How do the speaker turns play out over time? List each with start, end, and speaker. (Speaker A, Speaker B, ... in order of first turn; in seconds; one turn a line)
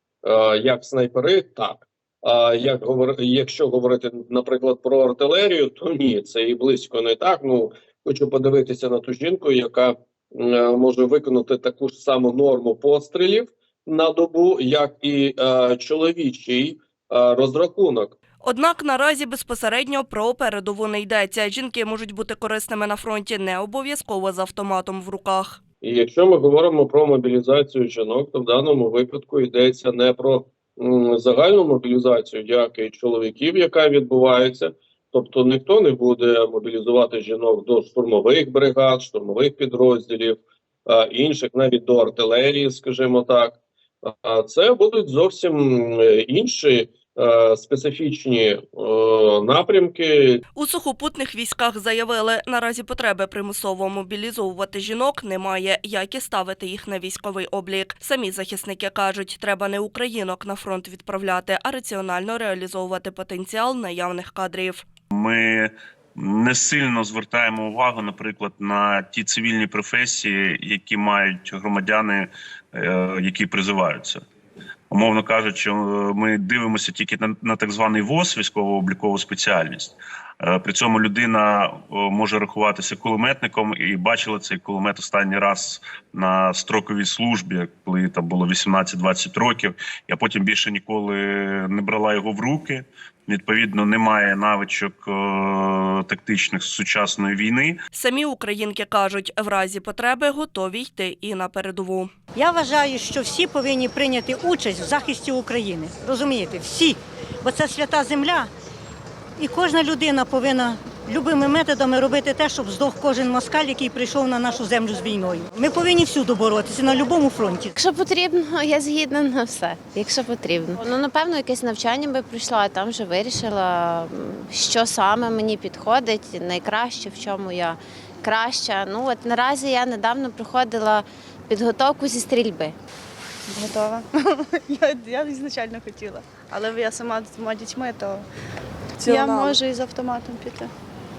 Speaker A: 0.2-18.1
Speaker B: 18.4-25.6
Speaker A: 25.8-50.4
Speaker B: 50.5-64.8
Speaker C: 65.1-74.2
Speaker C: 74.9-97.8
Speaker B: 97.9-102.1
Speaker D: 102.3-108.5
Speaker D: 109.4-117.7
Speaker E: 117.7-132.7
Speaker F: 133.5-138.3
Speaker F: 139.0-140.7
Speaker B: 139.1-139.5